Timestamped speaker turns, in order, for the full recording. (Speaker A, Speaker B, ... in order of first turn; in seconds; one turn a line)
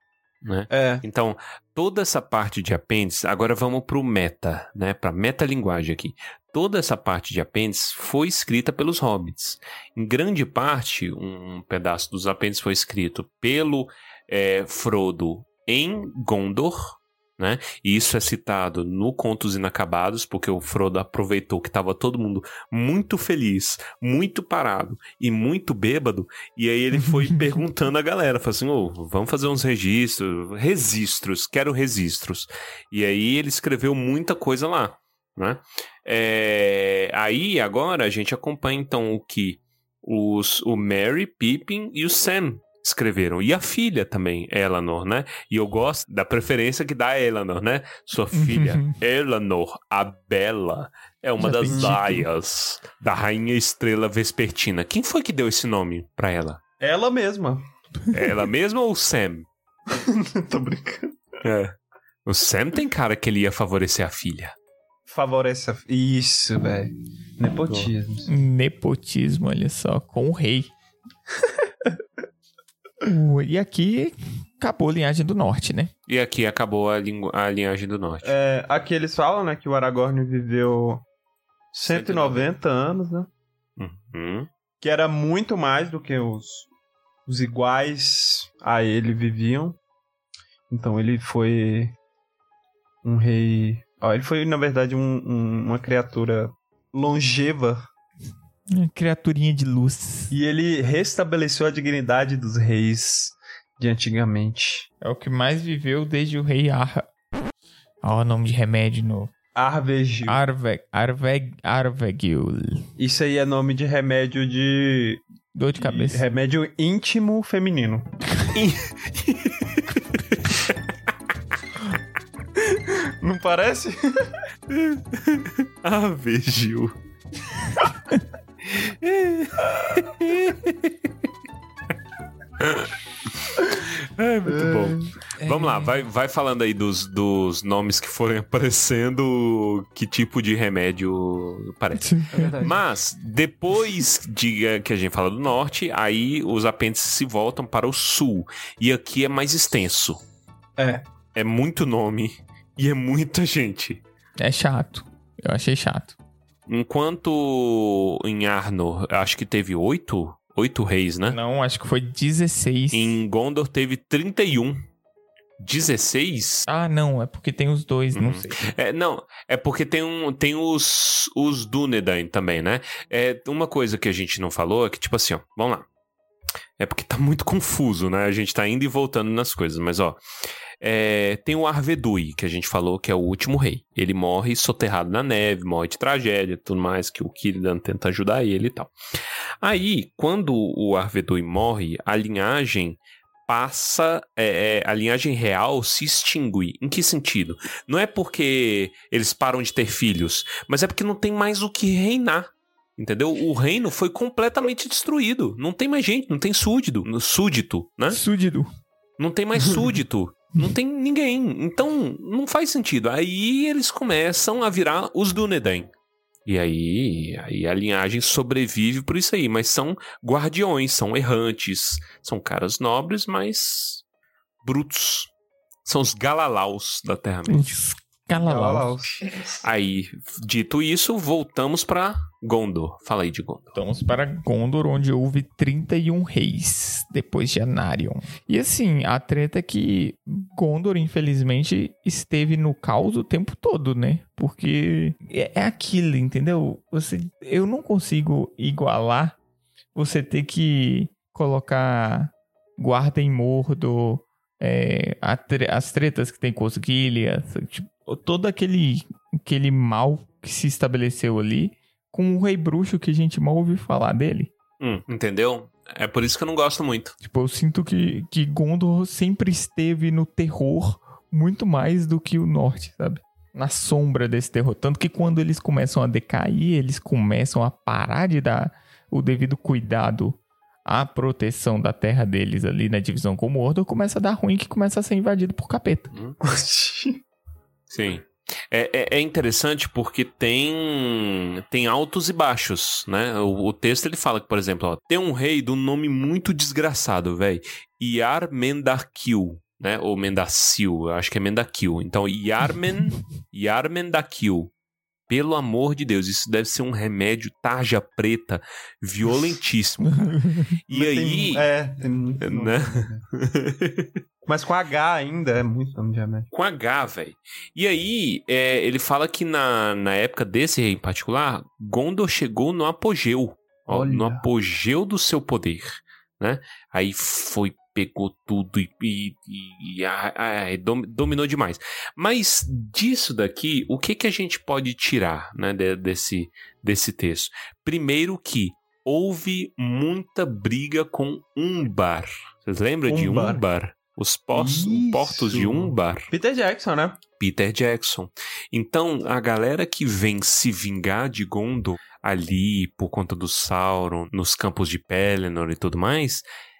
Speaker A: 0.4-56.6
Speaker B: 0.7-1.0
Speaker C: 48.3-48.9
Speaker C: 51.4-52.2
Speaker B: 51.7-52.0
Speaker B: 56.8-57.6
Speaker A: 58.1-59.5
Speaker B: 59.9-61.2
Speaker A: 61.4-61.7
Speaker A: 62.2-64.5
Speaker B: 65.1-68.3
Speaker C: 68.3-70.7
Speaker C: 73.0-75.9
Speaker A: 76.1-78.3
Speaker B: 78.2-81.0
Speaker A: 81.7-82.5
Speaker B: 81.8-83.3
Speaker A: 83.8-84.5
Speaker B: 84.8-86.7
Speaker B: 87.2-89.8
Speaker B: 90.7-92.0
Speaker B: 93.0-97.9
Speaker C: 98.7-100.3
Speaker B: 100.3-104.9
Speaker C: 105.0-107.1
Speaker C: 108.0-109.3
Speaker B: 109.5-110.4
Speaker C: 110.3-112.9
Speaker B: 113.0-115.2
Speaker C: 115.5-116.2
Speaker B: 115.7-118.1
Speaker A: 118.5-120.7
Speaker B: 122.8-124.4
Speaker A: 124.7-126.9
Speaker A: 128.7-131.1
Speaker A: 132.6-132.9
Speaker A: 133.5-150.2
Speaker B: 134.4-135.1
Speaker C: 135.4-136.0
Speaker C: 142.0-142.6
Speaker B: 142.3-142.8
Speaker B: 150.8-151.1
Speaker A: 151.3-154.0
Speaker C: 154.4-156.2
Speaker A: 156.7-161.4
Speaker C: 161.3-163.2
Speaker A: 162.9-164.8
Speaker A: 165.6-166.7
Speaker C: 166.7-168.7
Speaker A: 168.1-175.8
Speaker A: 176.8-180.2
Speaker A: 180.8-188.9
Speaker A: 189.6-208.2
Speaker C: 208.1-208.7
Speaker A: 209.2-215.9
Speaker A: 216.4-224.0
Speaker A: 224.6-225.3
Speaker A: 225.8-227.8
Speaker C: 227.5-229.0
Speaker B: 228.4-229.6
Speaker A: 229.6-233.8
Speaker C: 233.8-249.4
Speaker C: 249.9-264.5
Speaker A: 264.8-267.1
Speaker C: 267.2-286.1
Speaker A: 286.1-286.4
Speaker B: 286.4-287.2
Speaker A: 287.9-304.7
Speaker A: 305.3-311.7
Speaker C: 310.1-310.7
Speaker B: 310.9-313.2
Speaker A: 312.4-314.1
Speaker B: 314.4-316.5
Speaker A: 316.5-346.3
Speaker B: 323.9-324.5
Speaker B: 343.1-343.6
Speaker B: 344.5-347.2
Speaker A: 347.4-356.4